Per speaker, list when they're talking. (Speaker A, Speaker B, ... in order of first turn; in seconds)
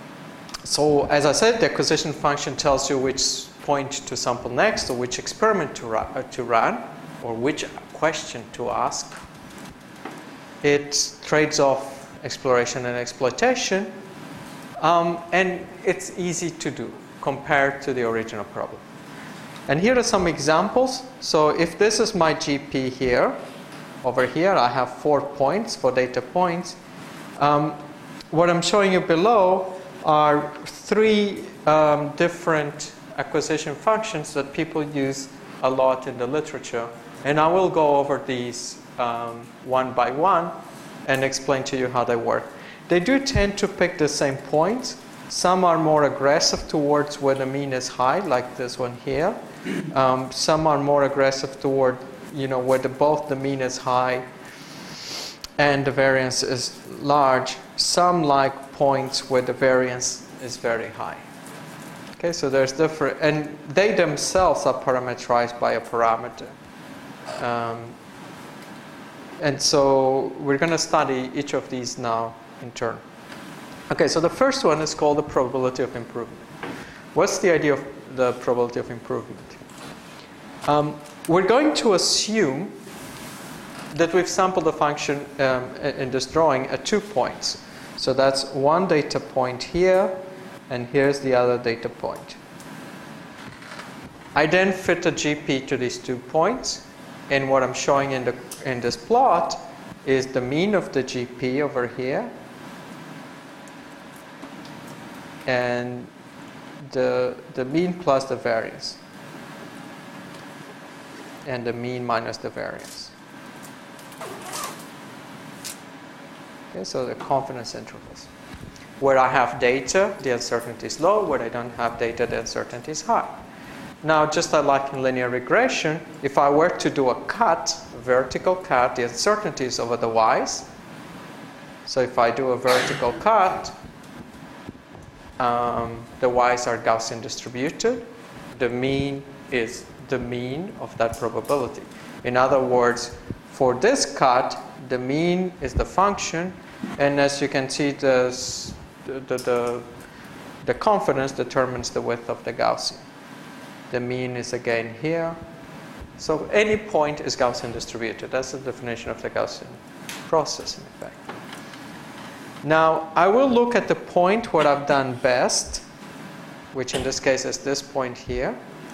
Speaker A: 0.6-9.2, 10.6-13.9, 14.8-18.8, 19.7-23.4, 24.0-26.8, 27.4-40.5, 41.0-49.4, 49.9-54.2, 55.6-61.2, 62.2-66.5, 67.4-68.0, 69.4-73.0, 73.9-76.5, 77.1-79.6, 80.7-82.8, 83.9-90.2, 90.7-92.4, 94.3-102.3, 105.5-106.1, 106.8-109.0, 111.5-113.1, 116.7-118.3, 119.0-123.4, 124.0-130.7, 131.9-133.8, 135.4-149.9, 150.6-153.1, 153.9-155.4, 156.2-161.2, 162.6-165.8, 166.7-168.6